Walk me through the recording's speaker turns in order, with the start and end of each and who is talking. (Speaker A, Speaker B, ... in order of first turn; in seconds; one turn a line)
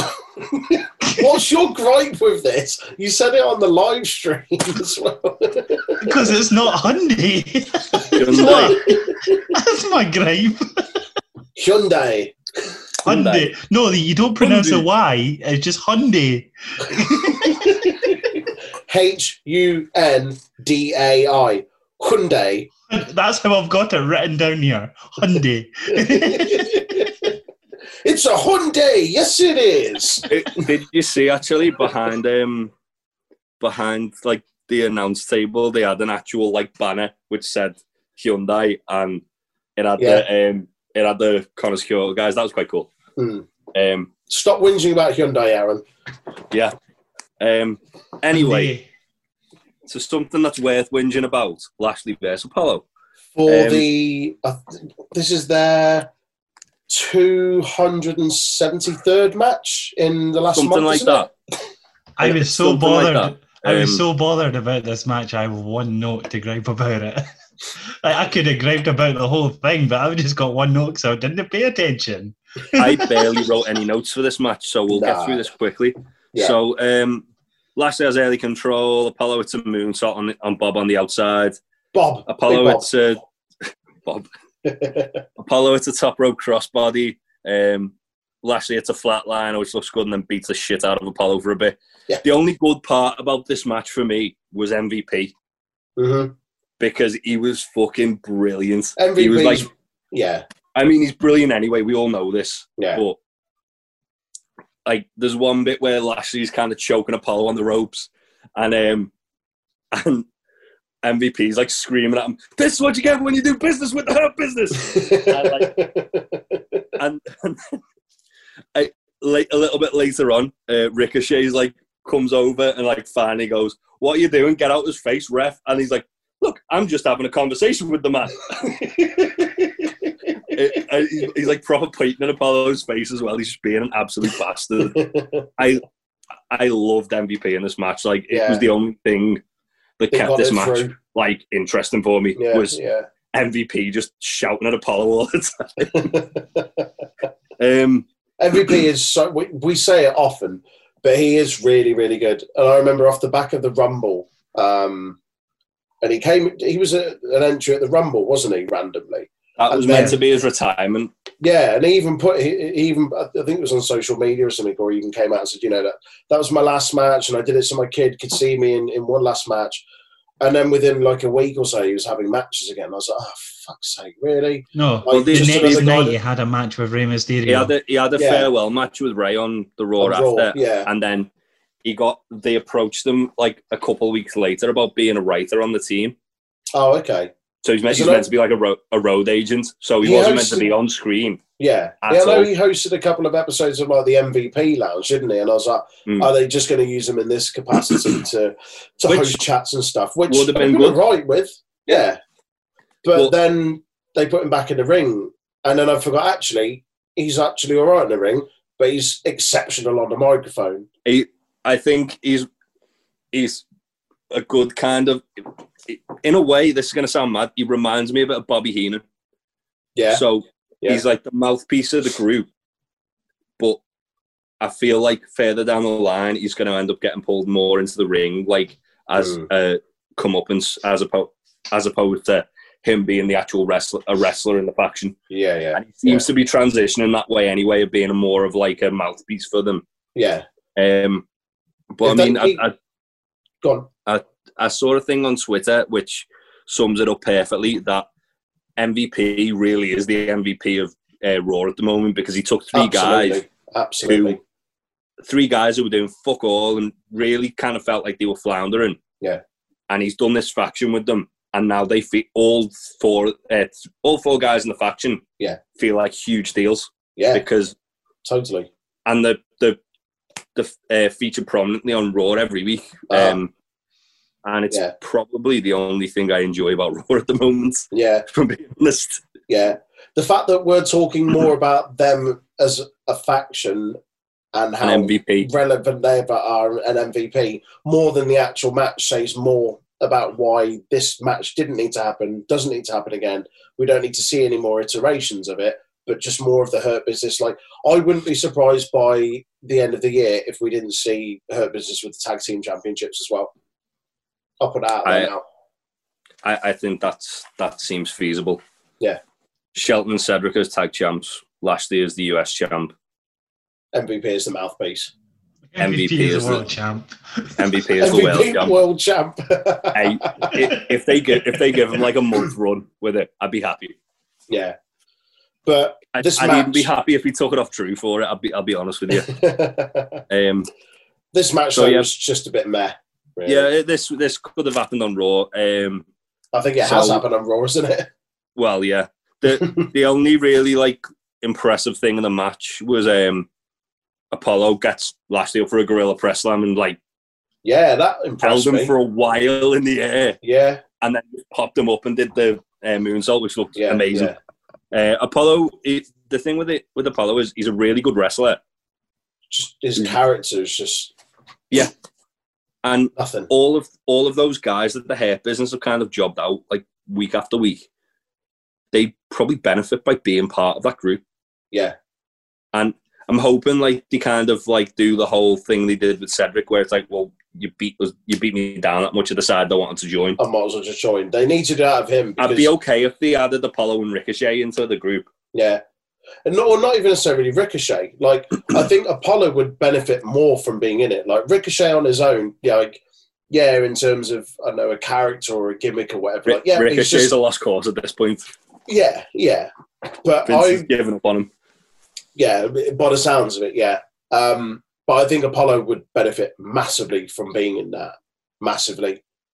Speaker A: 0.5-6.1
Speaker B: 6.0-11.0
Speaker C: 8.1-8.8
Speaker A: 8.2-9.4
Speaker A: 11.6-12.3
Speaker B: 13.0-18.1
Speaker C: 13.1-13.5
Speaker C: 14.4-14.8
Speaker A: 17.4-18.4
Speaker A: 18.9-22.7
Speaker B: 22.9-27.1
Speaker A: 25.9-27.3
Speaker A: 28.0-30.3
Speaker C: 30.3-32.7
Speaker C: 33.6-39.2
Speaker C: 39.8-42.9
Speaker A: 40.0-40.2
Speaker A: 43.2-43.5
Speaker C: 43.7-44.1
Speaker A: 44.3-45.8
Speaker C: 47.4-48.7
Speaker B: 48.3-48.9
Speaker C: 49.9-52.8
Speaker A: 53.3-56.1
Speaker C: 53.5-53.9
Speaker A: 56.9-61.3
Speaker C: 60.5-61.3
Speaker B: 62.2-67.3
Speaker C: 62.2-64.0
Speaker B: 67.8-73.4
Speaker C: 72.7-77.2
Speaker A: 74.9-75.5
Speaker C: 77.8-81.6
Speaker A: 81.9-82.9
Speaker C: 82.3-84.3
Speaker A: 84.6-85.2
Speaker C: 85.4-95.3
Speaker A: 96.0-96.3
Speaker C: 96.8-99.7
Speaker A: 99.0-100.5
Speaker C: 100.7-103.2
Speaker C: 104.8-109.1
Speaker C: 109.9-110.3
Speaker C: 111.0-115.7
Speaker A: 114.9-116.8
Speaker C: 117.0-117.8
Speaker C: 118.7-128.5
Speaker A: 128.9-129.6
Speaker C: 130.5-135.0
Speaker A: 134.9-135.5
Speaker C: 135.6-135.8
Speaker C: 136.5-139.4
Speaker A: 138.3-138.6
Speaker C: 140.0-142.8
Speaker A: 140.1-140.9
Speaker A: 142.4-143.1
Speaker C: 143.3-146.2
Speaker A: 145.9-146.9
Speaker C: 147.6-148.1
Speaker A: 148.4-155.2
Speaker A: 156.0-160.2
Speaker C: 159.6-161.1
Speaker B: 159.9-160.2
Speaker A: 161.4-169.8
Speaker A: 170.4-176.1
Speaker B: 174.7-177.7
Speaker C: 175.1-176.1
Speaker C: 177.5-181.3
Speaker A: 178.2-178.5
Speaker A: 180.0-180.9
Speaker C: 181.8-186.1
Speaker A: 186.7-187.3
Speaker C: 187.6-191.4
Speaker A: 187.9-188.3
Speaker A: 190.0-190.7
Speaker A: 191.6-202.2
Speaker C: 192.0-192.5
Speaker C: 199.1-199.4
Speaker C: 200.3-201.0
Speaker A: 203.0-210.9
Speaker C: 211.0-212.5
Speaker C: 213.3-213.6
Speaker C: 214.3-219.0
Speaker A: 219.9-220.2
Speaker C: 220.1-222.5
Speaker C: 224.6-235.2
Speaker A: 229.2-229.5
Speaker A: 235.3-236.3
Speaker C: 235.7-239.8
Speaker A: 240.2-240.4
Speaker C: 240.8-241.2
Speaker C: 241.9-242.7
Speaker A: 242.0-242.6
Speaker A: 243.6-243.9
Speaker C: 244.1-248.1
Speaker C: 248.8-253.4
Speaker A: 252.7-254.4
Speaker C: 254.1-254.4
Speaker C: 255.2-259.0
Speaker C: 259.9-265.2
Speaker C: 265.7-267.7
Speaker A: 267.2-267.4
Speaker A: 268.2-268.7
Speaker C: 269.1-269.8
Speaker C: 270.5-273.5
Speaker A: 273.1-273.4
Speaker C: 274.4-279.2
Speaker A: 277.9-278.2
Speaker A: 279.5-284.0
Speaker A: 284.5-303.5
Speaker C: 284.8-285.5
Speaker A: 304.6-305.4
Speaker C: 305.0-305.3
Speaker C: 306.4-308.6
Speaker C: 309.7-312.9
Speaker A: 313.9-315.1
Speaker B: 315.7-317.6
Speaker C: 315.8-316.6
Speaker C: 317.6-318.7
Speaker A: 318.0-320.7
Speaker C: 319.9-323.9
Speaker A: 324.5-324.8
Speaker A: 325.6-326.9
Speaker C: 326.1-329.4
Speaker A: 329.1-330.2
Speaker C: 330.3-330.7
Speaker A: 331.3-333.6
Speaker C: 331.7-332.1
Speaker C: 333.4-336.1
Speaker A: 336.5-338.1
Speaker C: 336.8-337.2
Speaker C: 338.6-343.5
Speaker A: 339.6-339.9
Speaker C: 344.3-347.0
Speaker A: 347.6-348.9
Speaker C: 348.4-350.4
Speaker A: 350.4-350.8
Speaker C: 351.0-354.3
Speaker A: 353.8-354.4
Speaker C: 354.9-358.6
Speaker A: 359.5-361.1
Speaker C: 362.8-367.9
Speaker A: 363.2-363.5
Speaker C: 368.9-371.2
Speaker C: 372.7-380.4
Speaker A: 380.4-382.7
Speaker C: 382.4-385.3
Speaker A: 385.5-385.8
Speaker A: 386.4-397.3
Speaker C: 396.5-398.5
Speaker A: 398.9-399.7
Speaker A: 400.2-400.9
Speaker C: 400.4-401.5
Speaker A: 402.4-409.2